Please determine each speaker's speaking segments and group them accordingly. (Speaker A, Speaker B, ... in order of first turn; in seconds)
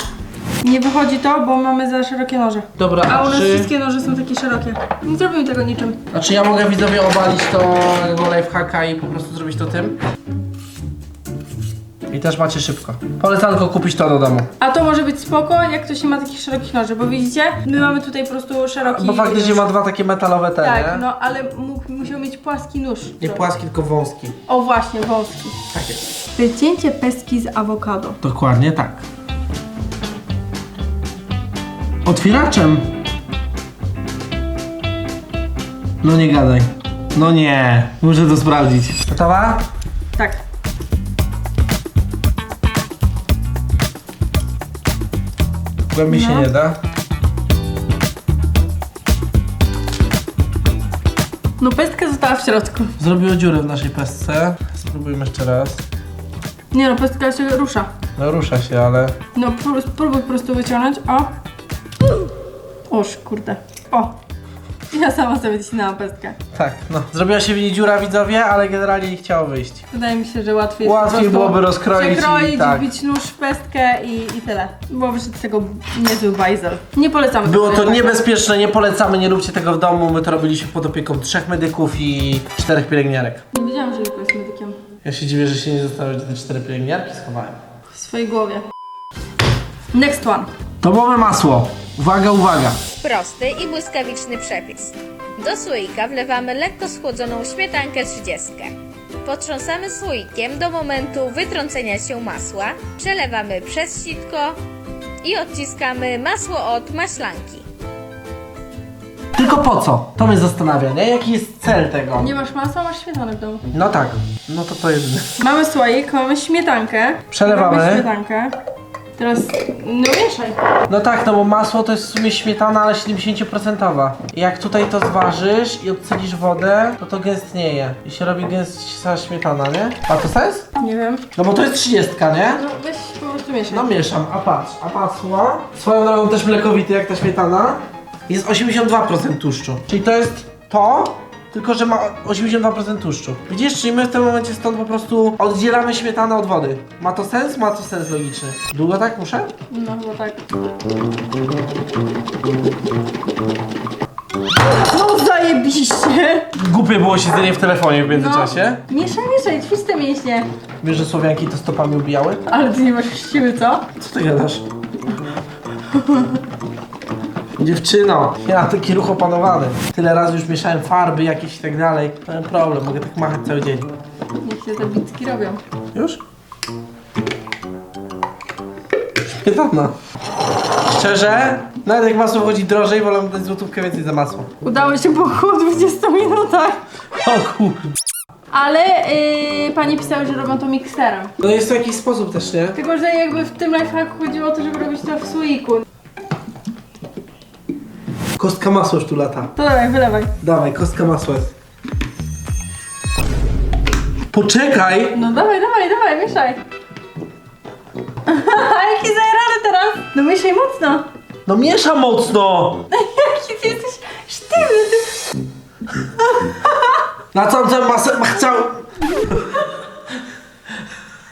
Speaker A: 0.6-6.0, 14.6-19.7, 20.6-23.4, 24.5-25.6, 26.3-28.2, 46.1-46.5, 51.6-53.0, 56.7-57.9, 59.3-61.3, 62.9-64.1, 64.9-66.4, 69.9-78.2, 83.5-84.8, 87.9-88.6, 89.9-90.5, 112.2-113.6, 115.4-118.5, 119.2-120.6, 130.8-131.2, 132.5-133.9, 149.7-150.5, 154.6-156.5, 158.1-160.5, 162.4-163.9, 165.9-166.4, 174.4-175.6, 184.6-186.8, 188.5-191.3, 192.7-195.8, 199.6-200.3, 205.1-206.6, 208.2-211.1, 212.9-215.3, 216.2-217.0
Speaker B: 2.8-3.7, 6.1-10.0, 12.1-14.5, 18.8-21.0, 23.2-24.4, 25.7-26.0, 28.2-29.0, 32.0-32.9, 36.0-39.6, 45.9-46.8, 53.0-55.8, 58.1-59.1, 66.5-69.8, 70.8-72.9, 77.4-83.4, 85.0-87.6, 90.8-92.8, 109.3-112.3, 113.7-115.4, 117.3-118.1, 120.9-130.7, 131.3-132.6, 133.7-149.5, 156.5-158.8, 160.8-162.4, 164.0-164.6, 167.6-173.9, 175.9-176.2, 179.2-179.9, 180.9-184.5, 187.2-187.9, 191.4-192.8, 198.4-199.5, 200.4-201.5, 204.3-205.2, 211.4-212.8, 217.3-219.7
Speaker C: 93.0-98.7, 99.2-104.6, 105.2-107.6